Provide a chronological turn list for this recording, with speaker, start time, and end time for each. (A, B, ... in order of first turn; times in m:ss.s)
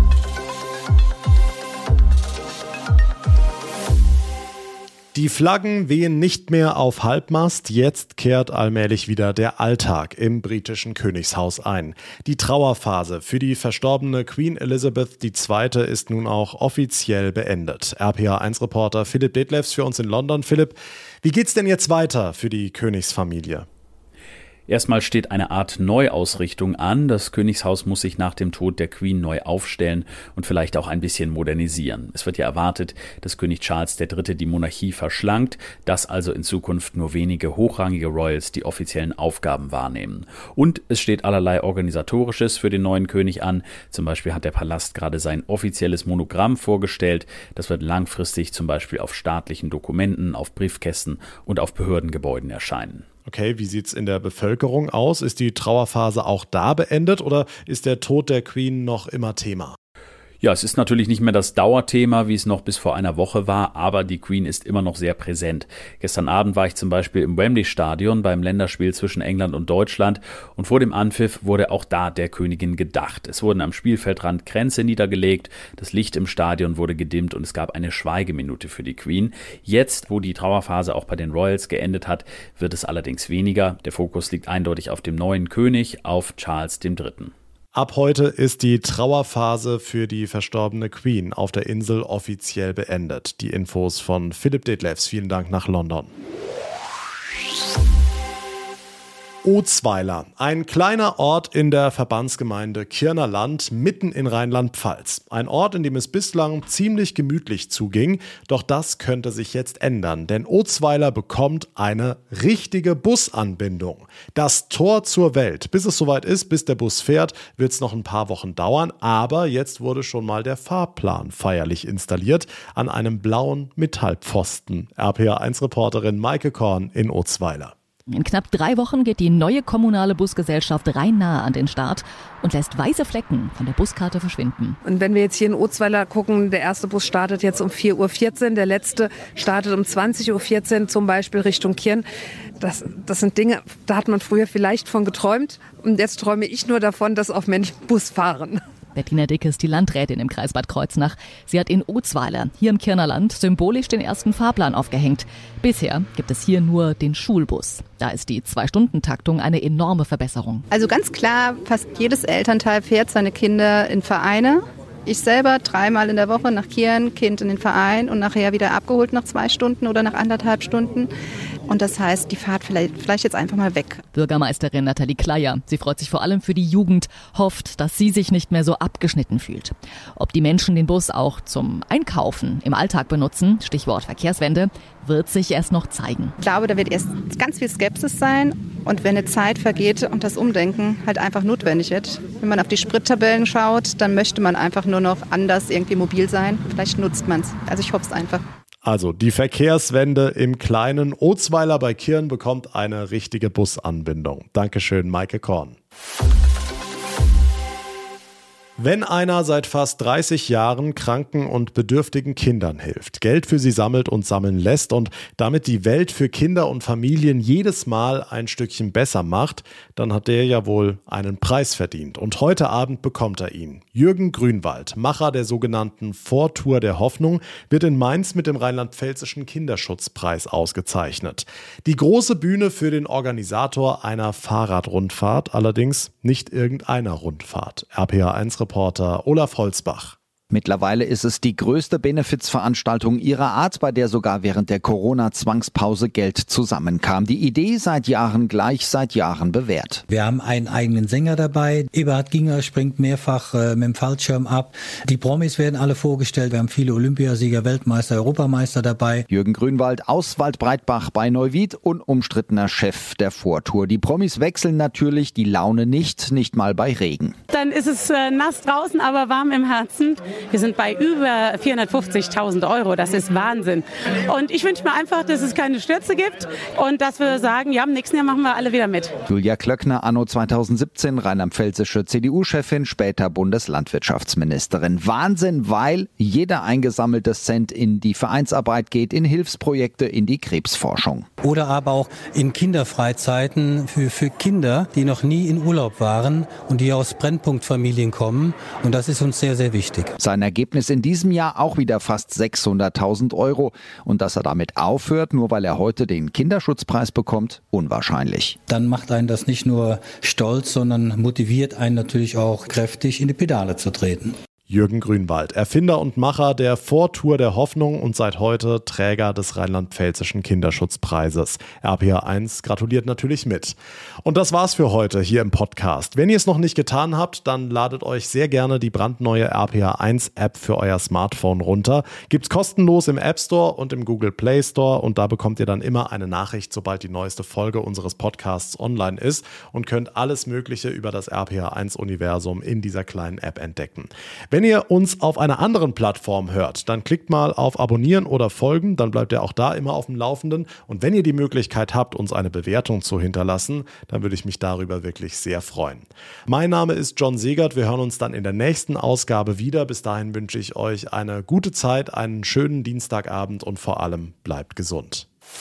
0:05.1-0:23.7 A
0:24.7-0:53.0 B
0:53.3-0:59.8 A
1:00.4-1:27.3 B
1:27.7-1:36.1 A
1:39.4-2:07.7 A
2:08.1-2:14.8 C
2:14.8-2:22.0 D
2:22.6-2:28.6 D
2:29.0-2:40.6 C
2:40.7-2:51.1 E
2:51.7-2:54.0 E
2:54.1-3:06.4 C
3:06.4-3:18.4 E
3:18.8-3:25.8 A
3:28.8-4:00.2 A
4:00.5-4:10.0 F
4:10.1-4:19.3 G
4:19.3-4:27.4 F
4:27.5-4:39.1 H
4:39.3-4:51.3 F
4:51.4-5:00.1 G
5:00.2-5:08.6 F
5:08.7-5:14.4 G
5:14.7-6:05.3 A